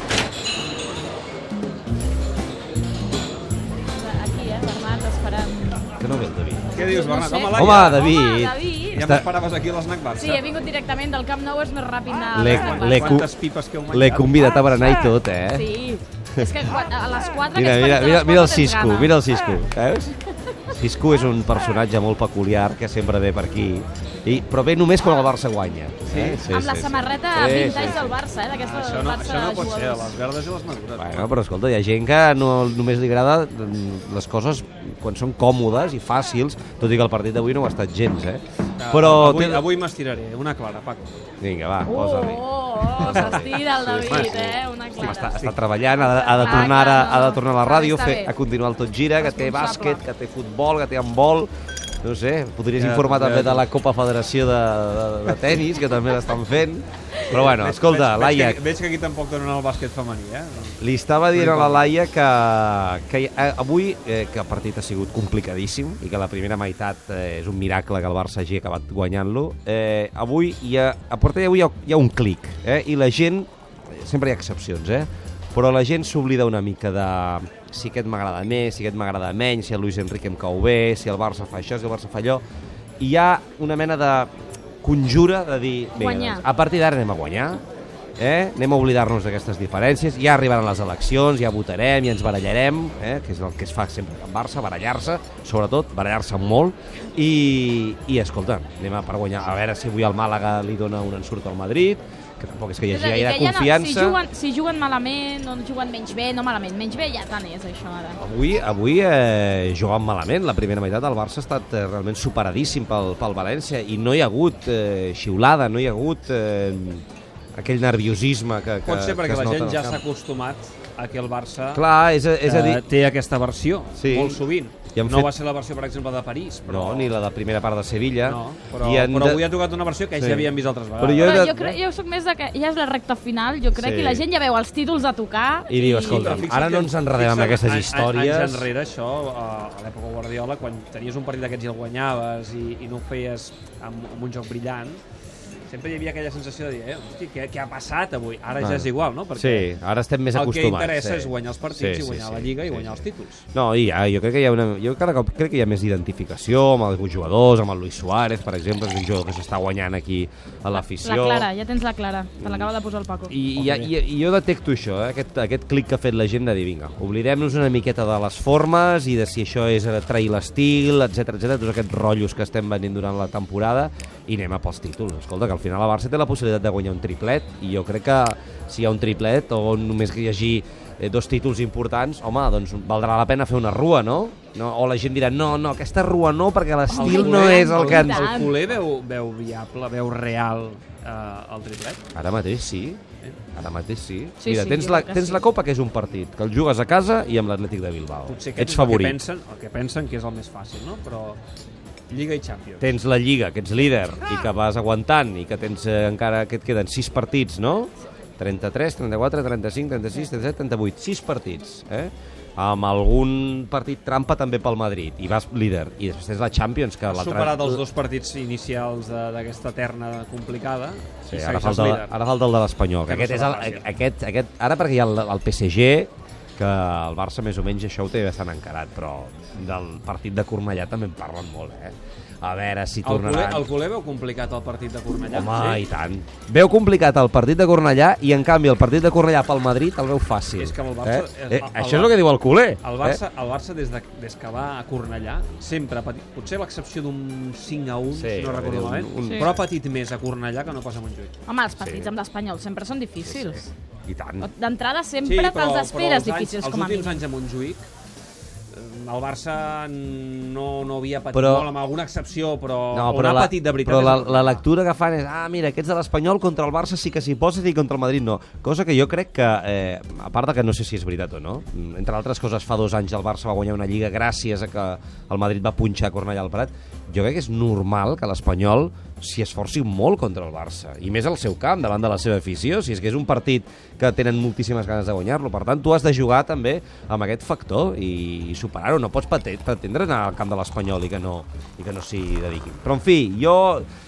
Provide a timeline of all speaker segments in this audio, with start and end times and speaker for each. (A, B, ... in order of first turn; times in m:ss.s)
0:03.9-0:05.9 A
0:06.0-0:06.7 B
0:06.7-0:08.1 C
0:06.8-0:09.1 A
0:07.5-0:09.3 B
0:08.9-0:10.4 C
0:10.2-0:13.2 A
0:12.3-0:13.3 B
0:12.4-0:15.0 C
0:13.9-0:15.7 B
0:15.5-0:19.2 A
0:16.4-0:16.7 B
0:17.5-0:20.2 B
0:20.7-0:28.2 B
0:26.1-0:26.5 C
0:26.5-0:30.1 A
0:28.6-0:31.3 C
0:31.0-0:39.6 B
0:38.8-0:41.2 C
0:41.4-0:51.5 B
0:41.8-0:48.3 A
0:43.0-0:44.3 C
0:46.4-0:46.7 C
0:49.2-0:50.0 A
0:52.0-0:58.6 B
0:52.8-0:53.7 C
0:57.3-1:00.8 C
1:00.8-1:22.4 B
1:01.3-1:01.9 C
1:23.0-1:24.3 B
1:24.8-1:27.6 B
1:26.0-1:26.4 A
1:28.2-1:44.2 B
1:42.9-1:48.2 A
1:48.2-1:57.0 B
1:57.6-2:00.0 B
1:58.8-2:01.8 C
2:01.7-2:02.8 B
2:02.4-2:07.1 C
2:04.0-2:04.4 B
2:04.9-2:05.3 B
2:06.7-2:09.5 B
2:08.2-2:11.8 C
2:10.2-2:11.6 B
2:11.2-2:16.4 A
2:13.7-2:14.3 B
2:15.7-2:18.7 B
2:16.0-2:25.0 C
2:25.7-2:29.7 C
2:28.6-2:33.0 B
2:30.3-2:33.4 C
2:33.5-2:41.5 B
2:40.8-2:43.4 A
2:42.4-2:42.7 B
2:43.3-3:08.4 B
2:43.6-2:43.9 C
3:06.9-3:08.6 A
3:06.9-3:12.0 C
3:12.1-3:13.0 B
3:13.6-3:19.2 B
3:14.4-3:15.4 A
3:18.3-3:21.4 C
3:22.1-3:23.0 C
3:22.8-3:37.8 B
3:37.1-3:42.1 C
3:41.3-3:53.7 B
3:43.1-3:43.9 C
3:53.0-3:55.9 C
3:55.3-4:03.2 B
4:00.6-4:02.2 C
4:02.8-4:11.3 C
4:08.1-4:09.7 B
4:09.2-4:09.5 A
4:11.5-4:13.7 A
4:11.8-4:12.1 B
4:13.3-4:14.5 B
4:14.4-4:17.2 A
4:15.2-4:17.8 C
4:18.7-4:24.6 C
4:21.3-4:21.7 B
4:22.9-4:53.9 B